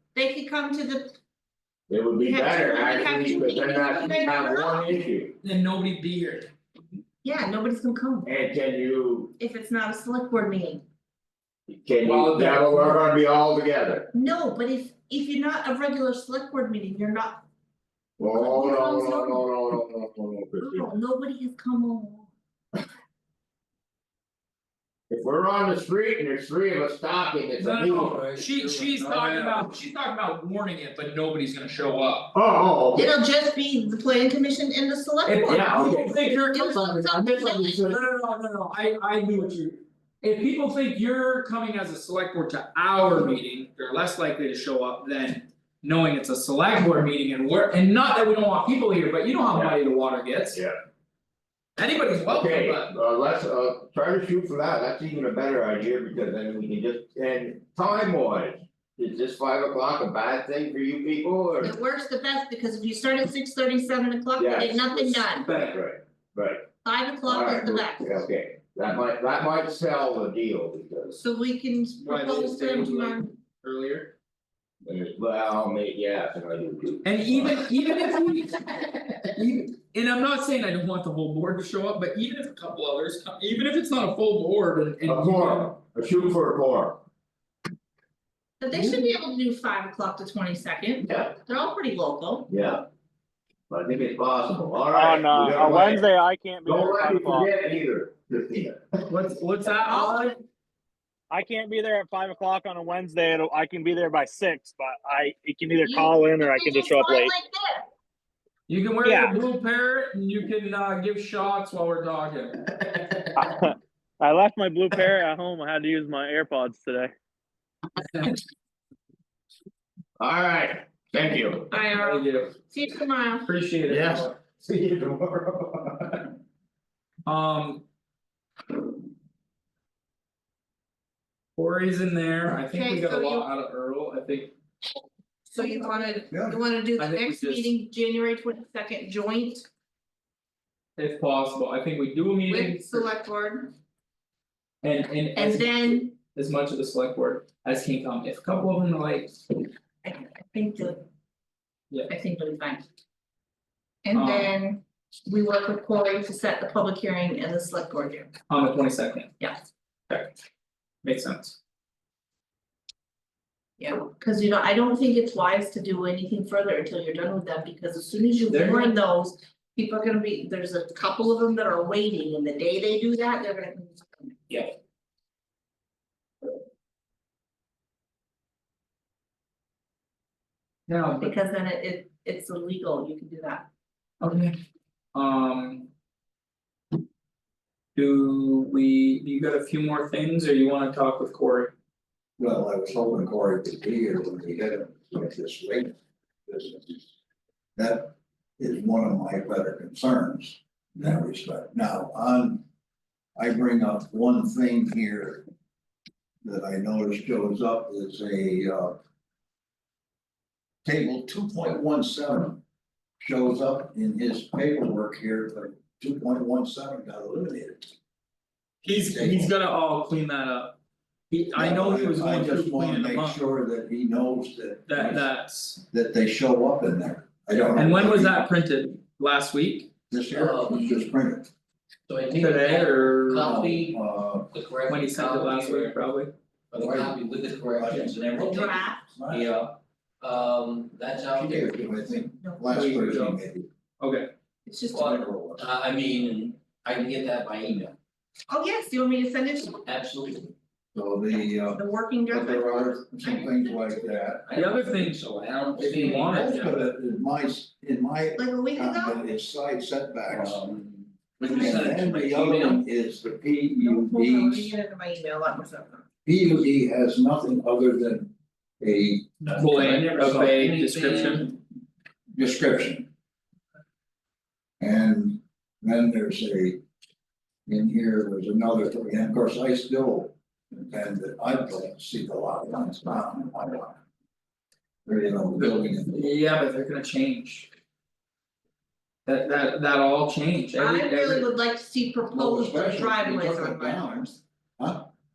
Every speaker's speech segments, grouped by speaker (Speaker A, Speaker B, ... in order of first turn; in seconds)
Speaker A: 0.1-1.2, 2.2-5.0, 7.2-8.3, 9.4-10.8, 14.1-17.5, 18.3-19.5, 20.6-22.3, 33.0-35.7, 36.4-37.8, 61.6-65.6, 66.8-68.2, 71.2-73.3, 88.6-92.5, 99.8-100.4, 105.8-107.9, 121.7-123.5, 132.7-133.5, 135.5-139.7, 142.5-143.7, 145.4-146.2, 150.0-151.0, 152.1-152.8, 154.1-158.3, 163.8-174.4, 181.2-183.7, 238.4-239.1, 244.7-245.2, 248.5-249.8, 251.7-254.3, 258.4-259.2, 261.5-261.8, 263.8-266.1, 290.8-294.2
Speaker B: 1.9-5.3, 8.2-9.3, 11.7-14.1, 18.2-20.9, 25.1-28.2, 32.3-33.1, 35.5-36.2, 37.3-38.0, 52.3-61.7, 64.4-66.7, 67.3-71.2, 74.8-77.5, 85.1-87.0, 91.0-91.4, 92.5-92.9, 93.7-96.1, 96.7-99.0, 120.2-121.6, 123.9-126.2
Speaker C: 5.4-6.5, 12.0-13.0, 27.6-32.3, 35.2-50.6, 51.8-52.9, 65.5-65.8, 72.0-74.1, 77.0-85.7, 99.1-100.4, 108.7-112.6, 122.0-122.6, 123.5-124.3, 127.3-127.8, 131.6-134.5, 137.0-137.7, 141.0-143.1, 144.8-149.4, 154.1-154.6, 158.5-159.3, 160.1-160.4, 161.0-161.6, 168.5-168.9, 180.9-181.3, 184.2-184.6, 185.1-185.9, 187.9-191.7, 218.8-220.8, 221.3-223.4, 224.9-225.8, 227.8-229.9, 232.3-233.5, 234.9-236.3, 242.7-243.4, 244.0-244.3, 254.5-255.2, 255.9-256.9, 269.5-271.6, 285.6-287.7, 289.2-291.5
Speaker D: 28.2-29.6, 230.3-231.0, 232.1-234.0, 234.5-236.0, 236.7-241.8, 244.9-247.9, 249.9-250.5, 254.5-256.6, 260.3-262.8, 269.4-271.5
Speaker E: 94.9-97.5, 101.3-107.3, 109.0-109.3, 113.4-117.1
Speaker F: 136.3-136.6, 192.4-197.1, 197.8-202.6, 203.4-205.5, 206.4-209.0, 210.8-212.6, 213.2-217.9, 218.9-219.5, 221.5-225.3, 225.9-228.4, 230.1-231.5, 233.3-234.5, 236.7-239.6, 241.3-243.7, 245.0-245.7, 250.9-254.6, 255.7-260.7, 261.4-264.7, 266.2-269.4, 272.3-273.1, 274.8-276.8, 277.7-284.0, 285.1-286.2, 292.3-295.1